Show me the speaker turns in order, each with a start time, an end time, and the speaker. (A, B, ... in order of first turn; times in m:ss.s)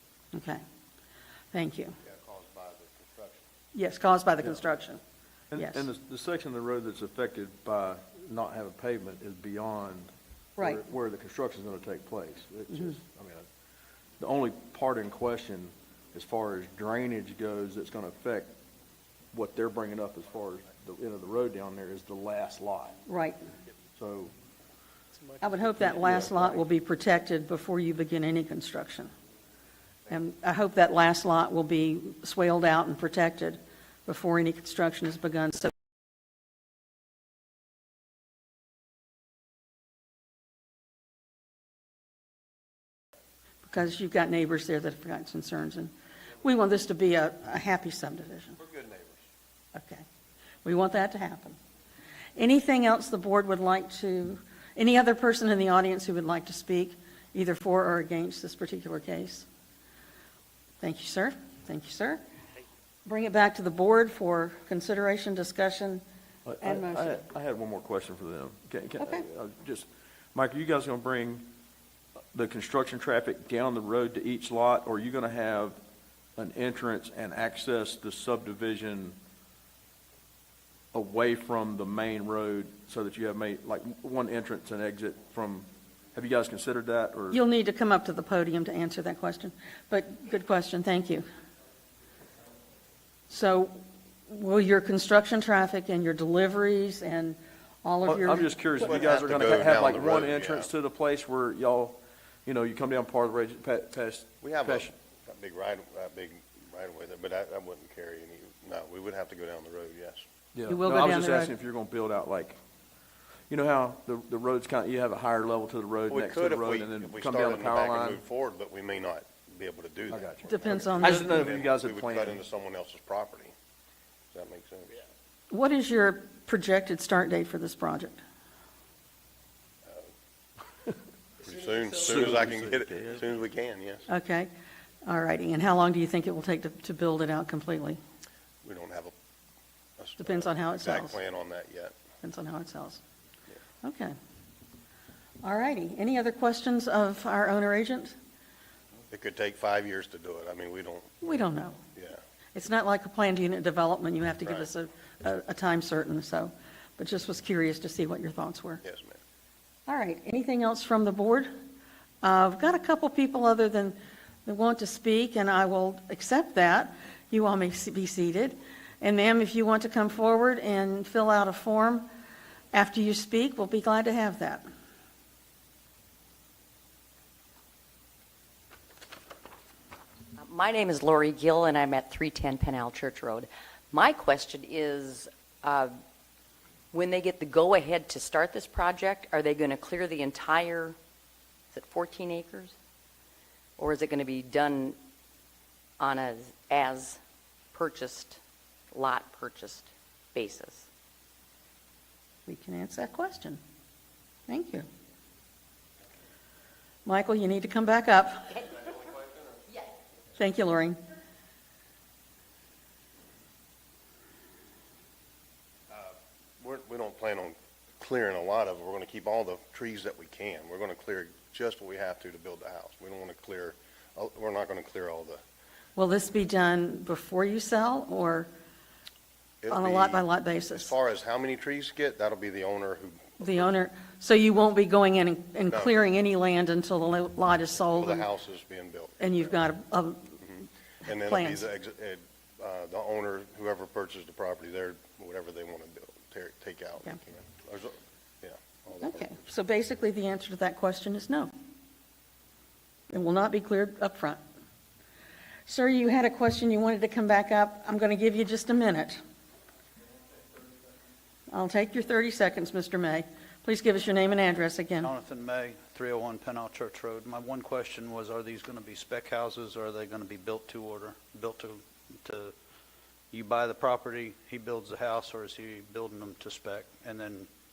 0:00.3-0:00.6 A
0:01.5-0:02.0 A
0:02.0-0:03.4 B
0:03.7-0:05.0 A
0:05.5-0:13.5 C
0:05.6-0:05.9 A
0:14.2-0:18.6 C
0:19.3-0:23.0 C
0:23.1-0:23.5 A
0:24.0-0:24.3 C
0:25.4-0:29.1 A
0:26.0-0:26.2 C
0:30.1-0:35.7 A
0:43.6-0:48.6 A
0:48.6-0:49.2 B
0:49.7-0:50.1 A
0:50.6-0:51.6 A
0:52.4-0:59.5 A
1:00.8-1:02.2 A
1:03.1-1:06.0 A
1:06.5-1:11.5 C
1:06.6-1:07.2 A
1:09.0-1:09.3 A
1:12.3-1:15.8 C
1:16.4-1:19.2 C
1:20.9-1:27.4 C
1:27.3-1:31.3 A
1:33.3-1:39.0 A
1:38.1-1:44.9 C
1:38.8-1:40.7 B
1:44.4-1:50.2 B
1:50.6-1:52.6 C
1:50.7-1:51.5 A
1:53.5-1:58.2 C
1:56.1-2:03.5 B
2:00.1-2:00.4 C
2:00.5-2:01.4 A
2:01.0-2:02.4 C
2:04.3-2:05.0 B
2:05.5-2:08.2 A
2:11.4-2:14.1 B
2:12.1-2:12.4 C
2:14.1-2:14.5 A
2:15.1-2:18.0 A
2:18.6-2:19.1 B
2:20.0-2:21.9 B
2:20.2-2:21.2 A
2:22.2-2:23.0 A
2:23.8-2:24.2 A
2:25.4-2:28.2 A
2:29.1-2:31.2 B
2:31.2-2:31.8 A
2:32.5-2:38.8 A
2:34.4-2:34.7 B
2:38.8-2:39.2 B
2:39.9-2:41.5 A
2:42.2-2:52.1 A
2:52.7-2:54.7 A
3:00.4-3:05.9 D
3:06.9-3:11.0 D
3:11.7-3:12.7 D
3:13.8-3:15.0 D
3:16.0-3:17.2 D
3:17.7-3:18.4 D
3:18.9-3:20.9 D
3:22.5-3:23.6 A
3:24.5-3:24.9 A
3:27.0-3:28.7 A
3:30.4-3:31.0 A
3:35.9-3:45.4 B
3:46.0-3:48.5 A
3:49.6-3:53.7 B
3:49.7-3:50.9 A
3:53.4-3:58.3 A
3:57.9-3:59.5 B
3:59.2-4:00.4 A
4:00.4-4:09.4 B
4:01.0-4:01.6 A
4:09.0-4:11.5 A
4:13.1-4:14.4 A
4:15.7-4:19.2 A
4:21.5-4:25.1 A
4:25.0-4:32.5 E
4:33.3-4:37.5 E